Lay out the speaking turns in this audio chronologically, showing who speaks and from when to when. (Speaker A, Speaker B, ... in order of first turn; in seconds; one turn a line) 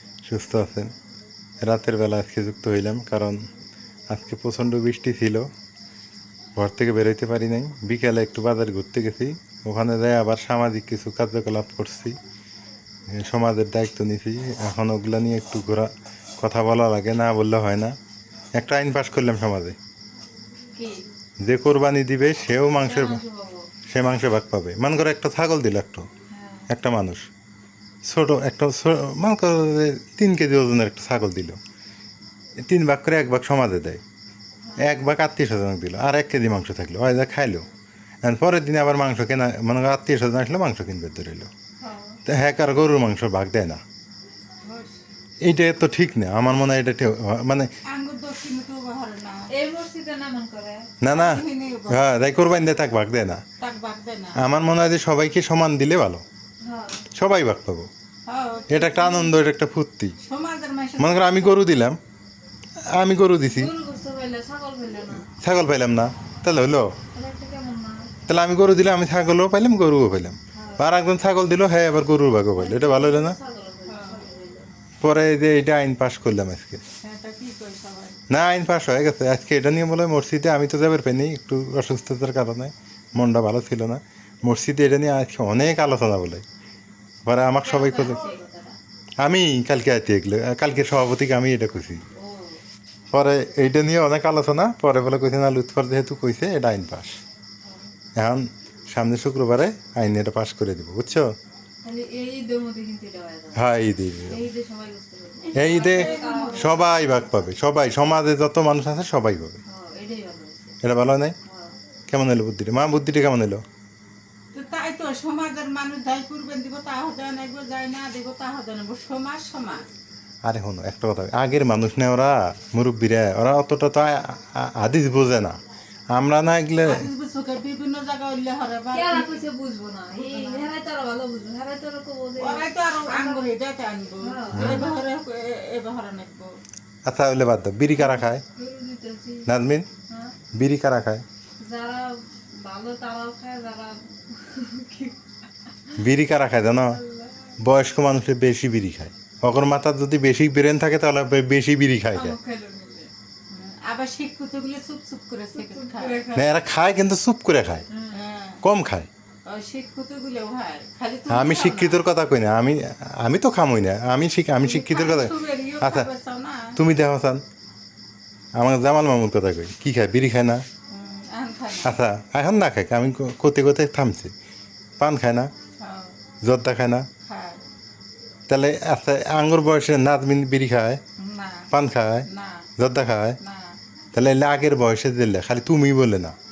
Speaker A: 0.2-0.9
Speaker A: 1.6-3.4
Speaker A: 4.1-5.5
Speaker A: 6.5-12.2
Speaker A: 13.1-17.9
Speaker A: 18.5-19.8
Speaker B: 20.7-21.1
Speaker A: 21.4-23.2
Speaker B: 22.8-23.7
Speaker A: 23.9-26.1
Speaker B: 26.3-26.7
Speaker A: 26.7-27.3
Speaker A: 28.0-31.6
Speaker A: 32.6-34.0
Speaker B: 34.6-35.0
Speaker A: 34.8-37.7
Speaker A: 38.2-41.5
Speaker B: 41.8-42.2
Speaker A: 42.3-43.8
Speaker C: 44.6-44.9
Speaker A: 45.4-47.7
Speaker C: 47.9-49.5
Speaker B: 49.5-50.9
Speaker A: 51.0-53.4
Speaker C: 51.0-52.2
Speaker C: 53.6-54.4
Speaker A: 54.4-56.2
Speaker B: 56.6-57.0
Speaker A: 57.1-57.9
Speaker C: 58.3-59.3
Speaker A: 58.7-60.1
Speaker C: 60.2-61.6
Speaker A: 61.0-62.0
Speaker A: 62.9-63.7
Speaker B: 63.5-65.3
Speaker A: 65.3-66.9
Speaker B: 67.1-68.1
Speaker A: 68.3-73.4
Speaker B: 70.5-70.9
Speaker B: 72.5-74.7
Speaker C: 73.9-74.3
Speaker A: 75.0-76.8
Speaker C: 77.0-78.2
Speaker A: 78.3-86.4
Speaker A: 87.2-88.2
Speaker B: 87.6-88.8
Speaker A: 89.2-92.0
Speaker B: 92.1-92.6
Speaker A: 93.1-97.2
Speaker B: 97.6-97.9
Speaker A: 98.2-101.3
Speaker B: 101.8-103.6
Speaker A: 103.5-104.4
Speaker B: 104.2-106.9
Speaker C: 105.5-106.9
Speaker A: 105.5-109.6
Speaker B: 109.7-110.8
Speaker A: 110.8-111.3
Speaker B: 111.4-111.8
Speaker A: 112.1-113.6
Speaker C: 114.5-119.9
Speaker A: 120.4-125.6
Speaker A: 126.1-127.0
Speaker C: 126.8-129.4
Speaker B: 128.9-133.4
Speaker C: 130.1-130.7
Speaker C: 132.4-136.5
Speaker B: 134.2-135.0
Speaker A: 134.5-134.9
Speaker A: 137.1-138.4
Speaker B: 137.9-139.5
Speaker A: 139.4-139.8
Speaker B: 140.1-140.3
Speaker A: 140.5-141.2
Speaker B: 141.6-146.0
Speaker A: 146.0-147.0
Speaker B: 146.9-147.5
Speaker A: 147.6-152.3
Speaker B: 152.1-153.1
Speaker C: 153.5-156.3
Speaker B: 155.5-156.5
Speaker A: 156.3-157.8
Speaker B: 157.9-158.2
Speaker C: 158.1-158.6
Speaker A: 158.6-159.1
Speaker C: 159.5-162.0
Speaker A: 161.3-166.1
Speaker C: 164.6-166.7
Speaker A: 166.7-167.4
Speaker A: 168.5-170.6
Speaker C: 170.9-172.0
Speaker A: 171.8-174.3
Speaker A: 175.0-175.5
Speaker C: 175.8-176.1
Speaker A: 176.4-177.1
Speaker C: 177.2-177.6
Speaker A: 178.5-181.0
Speaker C: 181.2-181.7
Speaker A: 181.7-182.2
Speaker C: 182.3-182.7
Speaker A: 182.8-183.4
Speaker C: 183.4-183.8
Speaker A: 184.1-186.3